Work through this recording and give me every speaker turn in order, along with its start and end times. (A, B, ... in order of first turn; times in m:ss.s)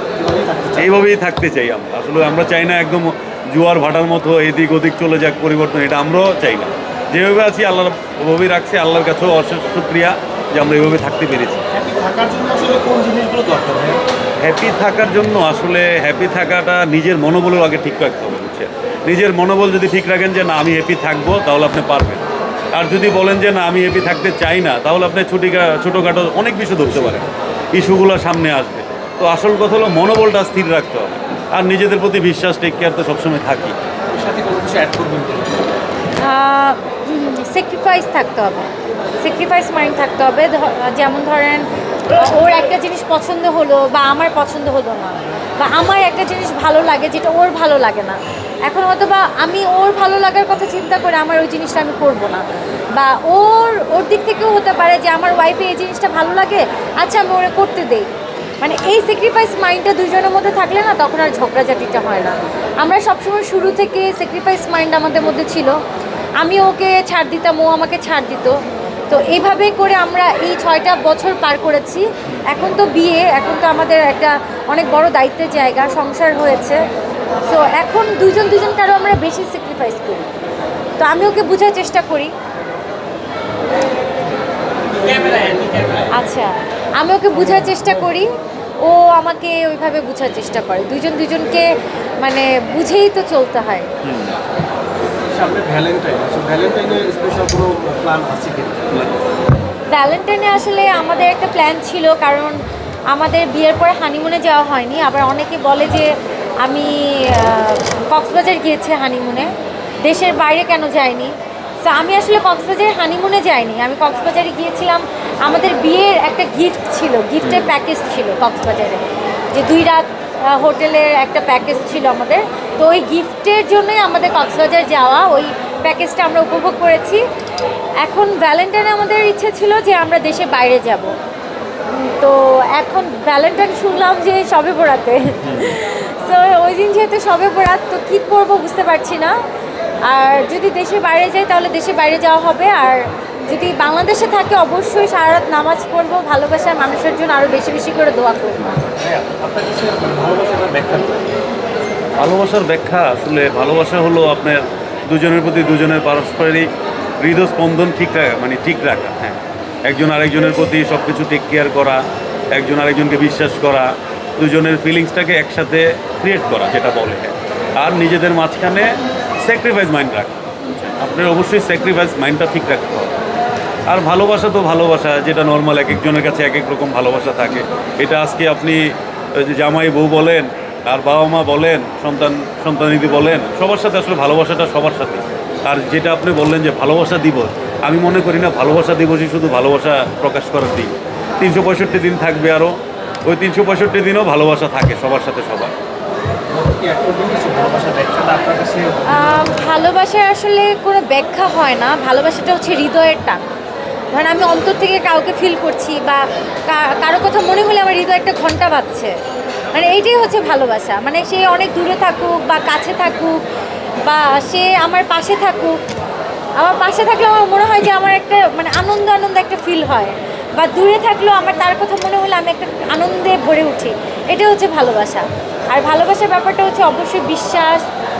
0:00.2-0:00.9 A
0:00.8-0:11.6 B
0:11.7-0:14.0 A
0:14.4-0:22.2 B
0:22.7-0:33.7 B
0:26.9-0:27.2 A
0:34.1-0:35.7 A
0:36.2-0:52.4 C
0:52.9-0:58.1 C
0:58.6-1:05.7 C
1:06.4-1:08.6 C
1:09.1-1:16.8 C
1:17.4-1:20.3 C
1:21.0-1:22.3 C
1:24.9-1:26.1 A
1:26.1-1:28.3 C
1:27.5-1:27.8 B
1:28.8-1:31.7 C
1:32.2-1:33.9 C
1:34.0-1:34.4 B
1:35.3-1:39.0 A
1:39.9-1:42.6 C
1:43.1-1:49.5 C
1:50.0-2:07.2 C
1:57.4-1:57.7 B
2:08.0-2:11.1 C
2:11.9-2:19.3 C
2:15.4-2:15.8 B
2:20.0-2:28.7 C
2:29.0-2:31.2 A
2:32.2-2:36.7 B
2:37.2-2:42.0 B
2:42.5-2:53.1 B
2:53.9-3:12.7 B
3:13.2-3:15.7 B
3:16.5-3:19.5 A
3:19.1-3:23.4 C
3:24.1-3:29.1 C
3:29.7-3:33.4 C
3:34.0-3:35.8 C
3:36.6-3:47.8 C